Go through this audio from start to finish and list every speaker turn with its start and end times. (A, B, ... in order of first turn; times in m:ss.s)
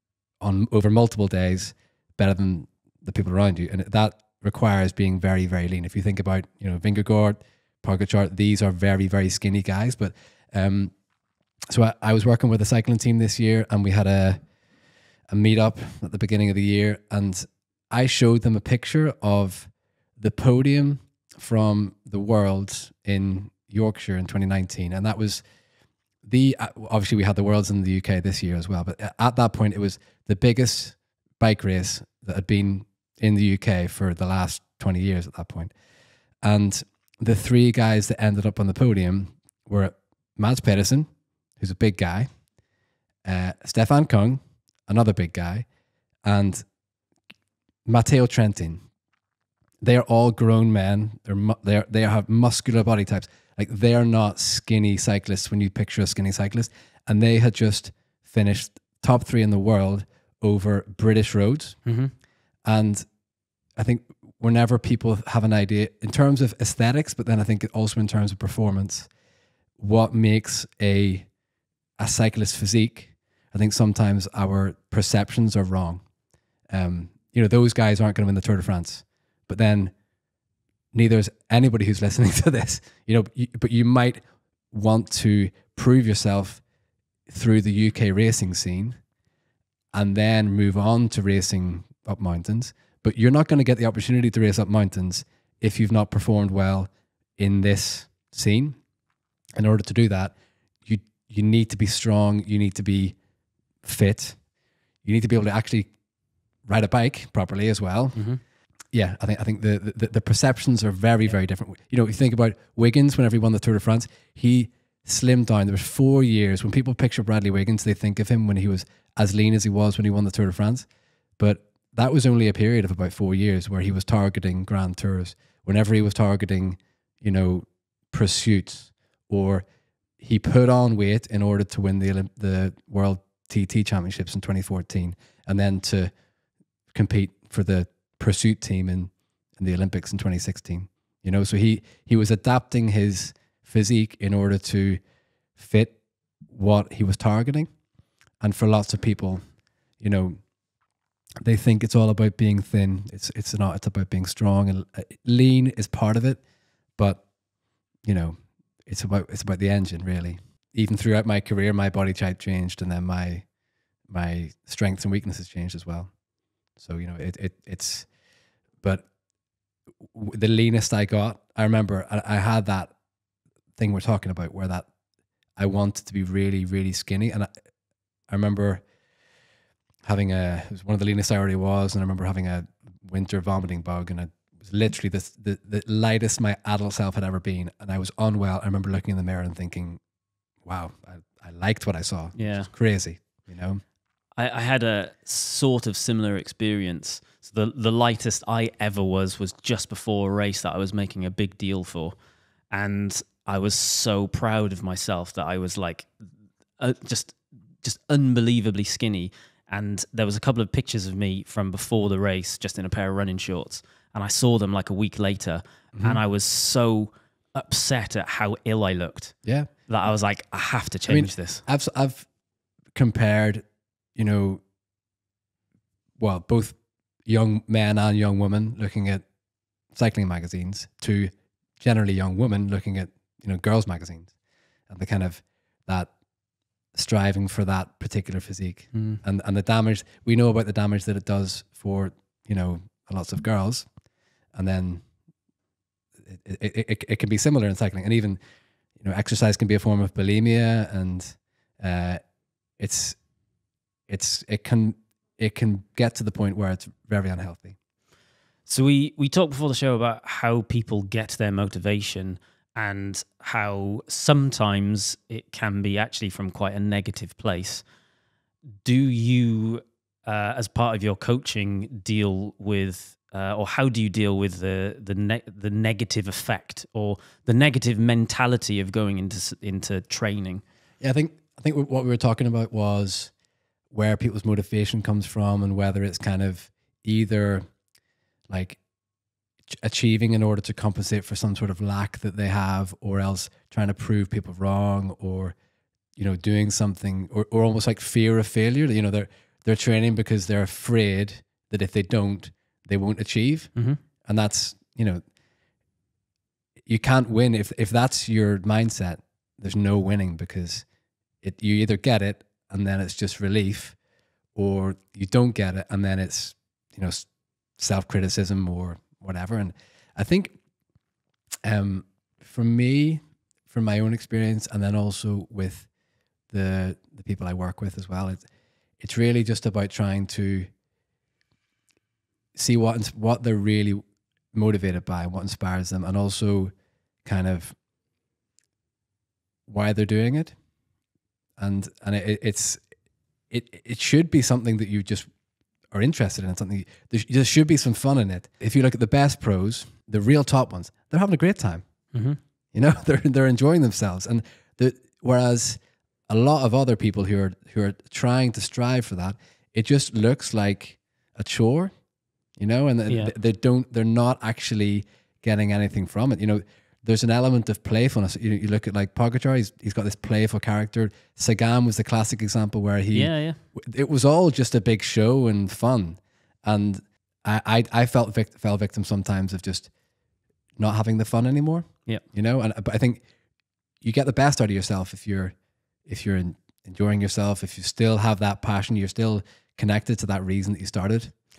0:00.4-0:10.9 A
0:11.7-0:14.4 A
0:15.3-0:25.4 A
0:26.2-0:35.7 A
0:36.4-0:41.1 A
0:41.6-0:42.3 A
0:43.2-0:45.7 A
0:46.2-0:46.6 A
0:47.9-0:48.8 A
0:49.8-1:01.8 A
1:01.9-1:02.1 B
1:02.6-1:03.0 A
1:03.8-1:09.1 A
1:09.8-1:11.3 A
1:12.0-1:16.0 A
1:16.7-1:19.9 A
1:20.9-1:26.6 A
1:27.3-1:29.0 A
1:29.9-1:38.8 A
1:39.6-1:43.2 A
1:43.8-1:44.4 A
1:45.0-1:45.9 A
1:46.7-1:48.2 A
1:48.2-1:48.4 B
1:48.9-2:00.9 A
2:01.4-2:09.6 A
2:10.2-2:16.1 A
2:16.9-2:25.0 A
2:25.6-2:26.0 A
2:26.5-2:27.7 A
2:28.4-2:29.4 A
2:30.0-2:30.4 A
2:31.4-2:36.4 A
2:37.0-2:37.2 A
2:38.0-2:38.4 A
2:38.9-2:43.5 A
2:44.1-2:46.1 A
2:46.8-2:48.1 A
2:50.1-2:52.9 A
2:53.8-2:54.9 A
2:55.6-2:57.5 A
2:58.3-2:58.8 A
3:00.0-3:10.0 A
3:10.6-3:13.8 A
3:12.4-3:12.7 B
3:14.4-3:22.2 B
3:22.7-3:26.1 B
3:26.8-3:39.3 B
3:35.9-3:36.2 A
3:39.4-3:39.7 A
3:39.9-3:41.6 B
3:41.1-3:42.3 A
3:42.9-3:43.6 A
3:44.2-3:44.6 A
3:46.2-3:49.2 A
3:49.9-3:54.3 A
3:54.9-3:56.1 A
3:56.9-4:03.9 A
3:58.9-3:59.2 B
4:04.6-4:05.0 A
4:06.2-4:08.4 A
4:09.0-4:12.2 A
4:12.8-4:13.2 A
4:14.1-4:17.8 A
4:18.7-4:27.8 B
4:28.8-4:40.6 B
4:41.0-4:43.3 A
4:43.9-4:47.6 A
4:48.5-4:48.8 A
4:49.7-4:55.6 A
4:56.2-5:03.7 A
5:04.2-5:05.2 A
5:06.9-5:10.9 A
5:11.4-5:14.0 A
5:14.6-5:17.3 A
5:17.8-5:20.6 A
5:21.6-5:25.9 A
5:26.5-5:28.5 A
5:29.0-5:30.7 A
5:32.6-5:34.0 A
5:34.5-5:36.7 A
5:37.2-5:37.8 A
5:39.7-5:40.6 A
5:41.6-5:42.8 A
5:43.5-5:45.3 A
5:45.9-5:51.8 A
5:52.1-5:52.4 B
5:52.7-6:01.9 A
6:02.6-6:19.9 A
6:13.1-6:13.6 B
6:20.8-6:23.2 A
6:24.0-6:25.5 A
6:26.1-6:31.3 A